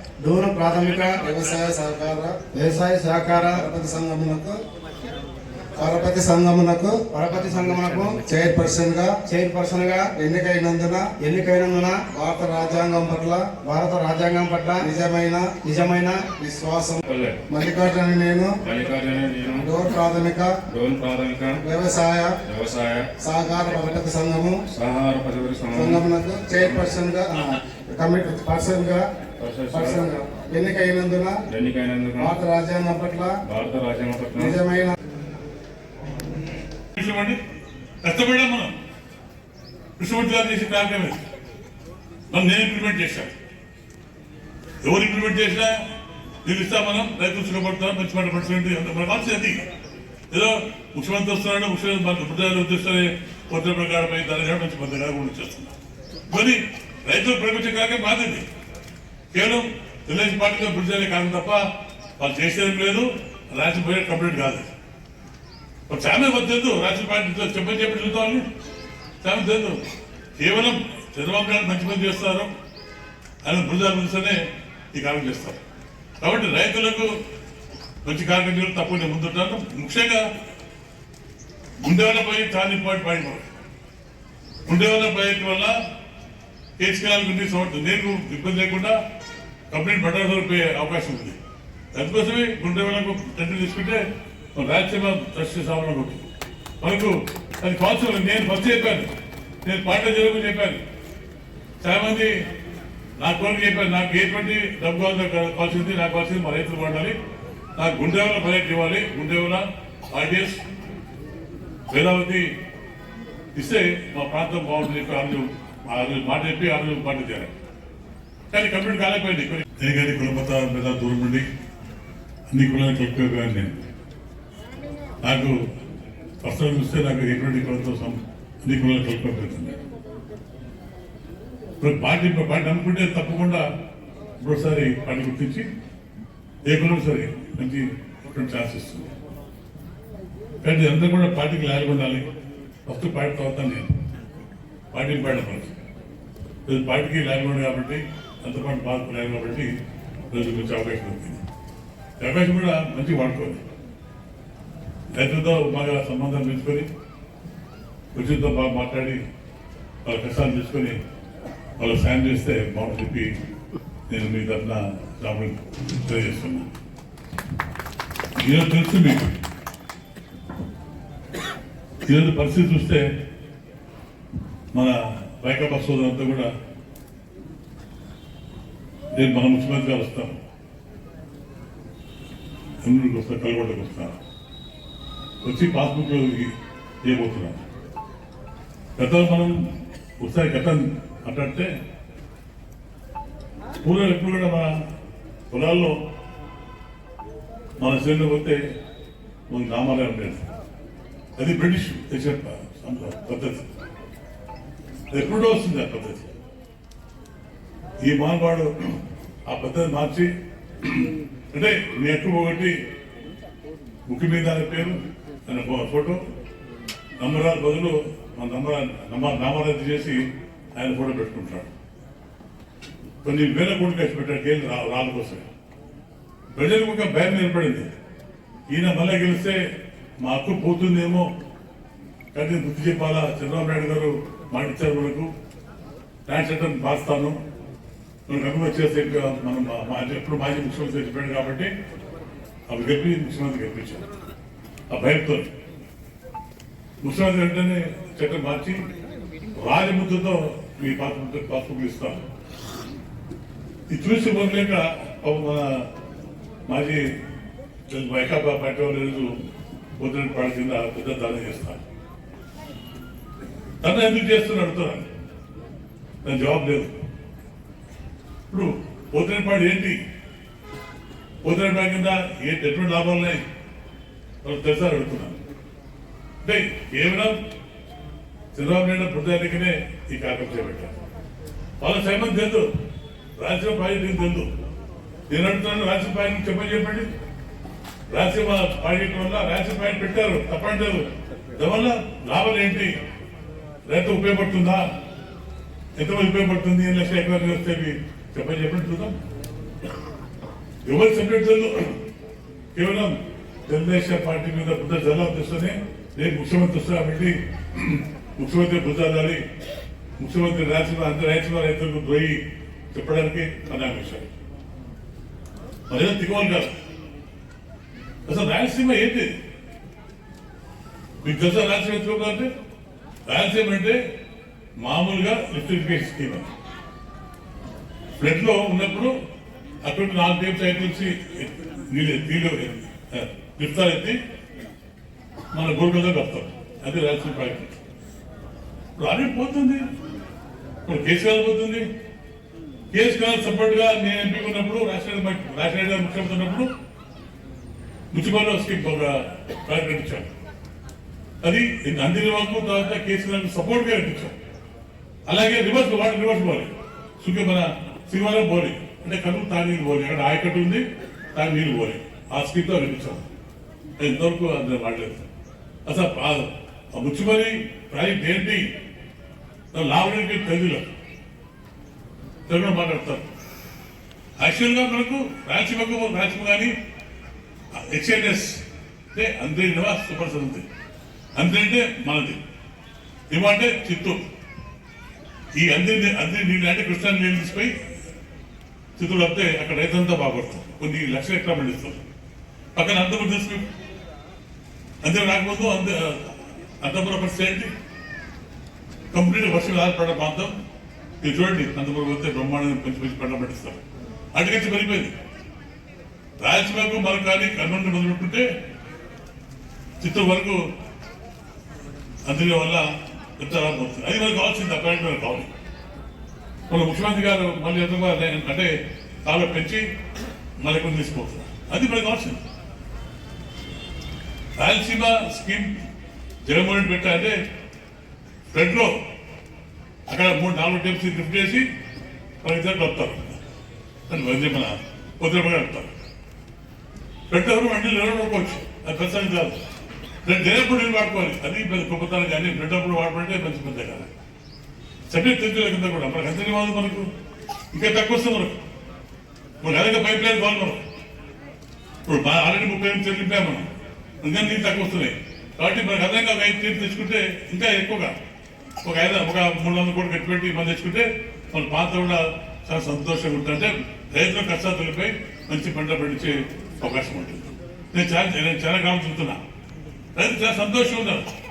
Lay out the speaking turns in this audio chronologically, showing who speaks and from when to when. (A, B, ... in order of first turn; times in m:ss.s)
0:00.2-0:01.2 A
0:01.1-0:02.4 B
0:02.5-0:03.7 A
0:03.5-0:04.6 B
0:05.8-0:07.0 B
0:07.1-0:08.2 A
0:08.2-0:09.2 B
0:09.3-0:10.1 A
0:10.1-0:11.1 B
0:11.2-0:12.0 A
0:12.1-0:13.6 B
0:13.6-0:14.9 A
0:14.8-0:15.5 B
0:15.6-0:16.2 A
0:16.4-0:18.5 B
0:17.1-0:17.4 C
0:18.6-0:19.7 C
0:19.6-0:20.5 B
0:20.7-0:21.6 C
0:21.6-0:22.3 B
0:22.5-0:23.1 C
0:23.2-0:24.6 B
0:24.7-0:26.0 C
0:25.7-0:29.0 B
0:29.4-0:30.0 C
0:29.7-0:31.4 B
0:31.5-0:32.3 C
0:32.2-0:33.4 B
0:33.5-0:34.5 C
0:34.4-0:35.0 B
0:37.0-0:37.4 D
0:38.0-0:38.7 D
0:40.0-0:41.2 D
0:42.3-0:43.3 D
0:44.8-0:45.8 D
0:46.4-0:49.6 D
0:50.3-0:55.7 D
0:56.3-0:58.5 D
0:59.3-1:01.6 D
1:02.2-1:04.7 D
1:05.9-1:08.4 D
1:09.2-1:09.8 D
1:10.4-1:12.5 D
1:13.4-1:14.4 D
1:14.9-1:15.6 D
1:16.2-1:17.1 D
1:18.0-1:20.3 D
1:21.8-1:23.5 D
1:24.7-1:25.8 D
1:26.8-1:29.0 D
1:29.7-1:31.4 D
1:31.9-1:34.0 D
1:34.6-1:36.3 D
1:36.8-1:39.1 D
1:39.6-1:40.8 D
1:41.8-1:42.3 D
1:43.2-1:47.2 D
1:47.8-1:50.6 D
1:51.9-1:52.5 D
1:53.6-1:57.5 D
1:58.5-2:01.5 D
2:02.5-2:03.8 D
2:05.2-2:05.6 D
2:06.4-2:09.8 D
2:11.8-2:13.6 D
2:14.4-2:15.7 D
2:16.7-2:19.1 D
2:20.6-2:22.3 D
2:22.9-2:23.9 D
2:24.9-2:25.8 D
2:26.7-2:29.7 D
2:30.3-2:31.4 D
2:32.2-2:33.6 D
2:35.2-2:36.9 D
2:38.1-2:39.2 D
2:40.0-2:41.0 D
2:41.8-2:43.3 D
2:44.1-2:46.7 D
2:48.4-2:49.4 D
2:52.0-2:53.1 D
2:54.7-2:56.5 D
2:59.2-3:00.4 D
3:02.8-3:04.2 D
3:05.4-3:06.5 D
3:07.0-3:07.6 D
3:09.0-3:09.5 D
3:10.2-3:11.7 D
3:13.8-3:14.7 D
3:15.5-3:16.0 D
3:17.8-3:18.6 D
3:19.5-3:20.5 D
3:21.4-3:23.7 D
3:25.1-3:26.2 D
3:28.0-3:30.3 D
3:30.8-3:32.8 D
3:34.1-3:36.2 D
3:37.2-3:40.2 D
3:40.8-3:41.7 D
3:43.2-3:45.5 D
3:46.5-3:47.9 D
3:48.7-3:49.6 D
3:50.2-3:51.3 D
3:52.3-3:55.3 D
3:56.3-3:57.4 D
3:58.3-4:01.7 D
4:02.7-4:04.0 D
4:04.9-4:05.5 D
4:07.0-4:08.8 D
4:09.6-4:12.2 D
4:13.9-4:15.9 D
4:16.7-4:17.0 D
4:17.9-4:19.5 D
4:20.0-4:21.8 D
4:23.8-4:25.1 D
4:26.2-4:26.9 D
4:28.5-4:30.0 D
4:31.4-4:33.4 D
4:34.4-4:35.4 D
4:36.4-4:37.4 D
4:38.5-4:40.9 D
4:41.8-4:42.7 D
4:43.4-4:44.5 D
4:45.3-4:47.1 D
4:48.1-4:51.0 D
4:51.6-4:52.9 D
4:53.9-4:54.8 D
4:56.0-4:59.2 D
5:00.9-5:01.9 D
5:02.8-5:03.2 D
5:03.7-5:09.4 D
5:10.2-5:12.4 D
5:12.9-5:14.3 D
5:15.9-5:16.7 D
5:18.3-5:19.3 D
5:21.2-5:22.5 D
5:23.3-5:24.0 D
5:24.8-5:26.5 D
5:28.2-5:29.1 D
5:29.8-5:34.2 D
5:35.5-5:37.8 D
5:39.0-5:39.8 D
5:40.8-5:41.8 D
5:42.9-5:46.7 D
5:48.1-5:50.3 D
5:51.4-5:54.4 D
5:55.3-6:03.3 D
6:04.0-6:05.3 D
6:05.9-6:08.7 D
6:09.7-6:10.9 D
6:12.5-6:13.3 D
6:14.4-6:16.7 D
6:17.8-6:18.6 D
6:19.1-6:20.6 D
6:21.4-6:22.4 D
6:23.3-6:24.2 D
6:25.6-6:27.7 D
6:29.0-6:32.0 D
6:32.8-6:33.6 D
6:35.0-6:37.7 D
6:39.1-6:40.6 D
6:41.2-6:43.8 D
6:44.4-6:45.1 D
6:46.4-6:48.5 D
6:50.0-6:50.6 D
6:52.3-6:52.8 D
6:53.4-6:55.5 D
6:56.7-6:58.7 D
6:59.3-6:59.8 D
7:00.6-7:02.4 D
7:04.6-7:05.7 D
7:06.5-7:07.4 D
7:08.5-7:08.9 D
7:10.1-7:11.6 D
7:12.4-7:13.4 D
7:14.1-7:16.0 D
7:17.3-7:19.6 D
7:20.2-7:24.1 D
7:25.1-7:27.1 D
7:27.7-7:28.6 D
7:29.6-7:30.8 D
7:32.1-7:33.7 D
7:34.2-7:38.2 D
7:38.8-7:49.4 D
7:50.2-7:51.3 D